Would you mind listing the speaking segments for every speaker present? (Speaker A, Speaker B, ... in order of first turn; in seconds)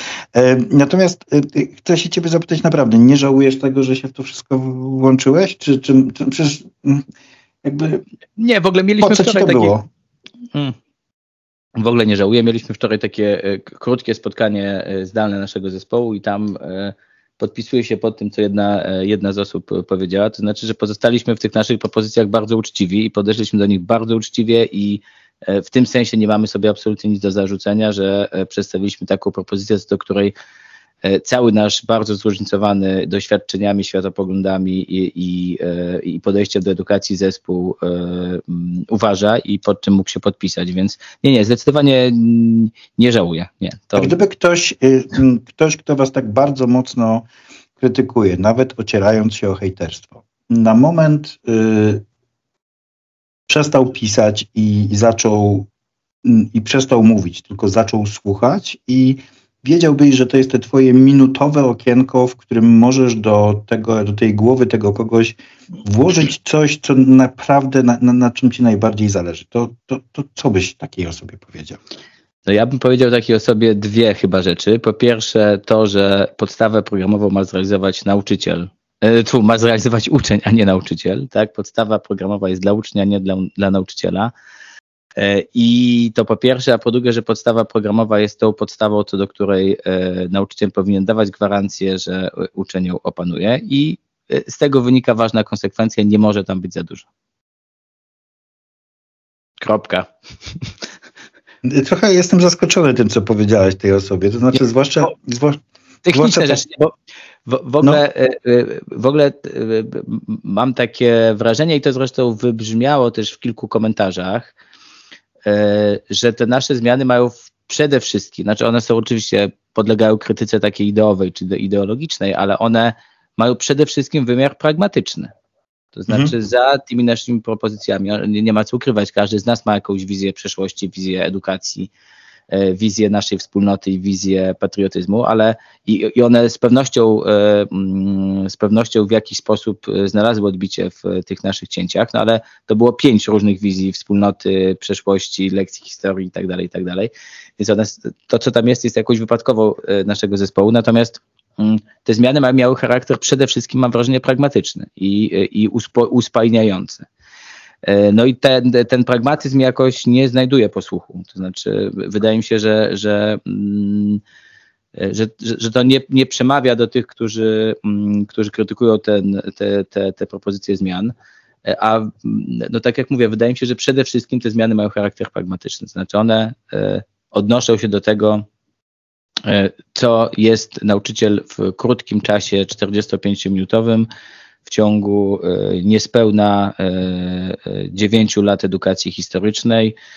Speaker A: 0.3-7.0, 7.6-8.0, 9.0-9.8, 44.0-47.3, 47.8-52.0, 53.5-55.7, 56.2-71.8, 101.6-106.6, 126.1-126.3
Speaker B: 8.4-9.8, 11.8-30.3, 31.0-44.1, 72.5-84.3, 85.2-97.1, 99.6-100.7, 106.0-106.9, 107.5-114.5, 115.4-125.3, 125.9-131.9, 132.5-157.1, 157.8-164.2, 164.9-171.1, 171.7-178.4, 179.4-184.1, 184.6-189.9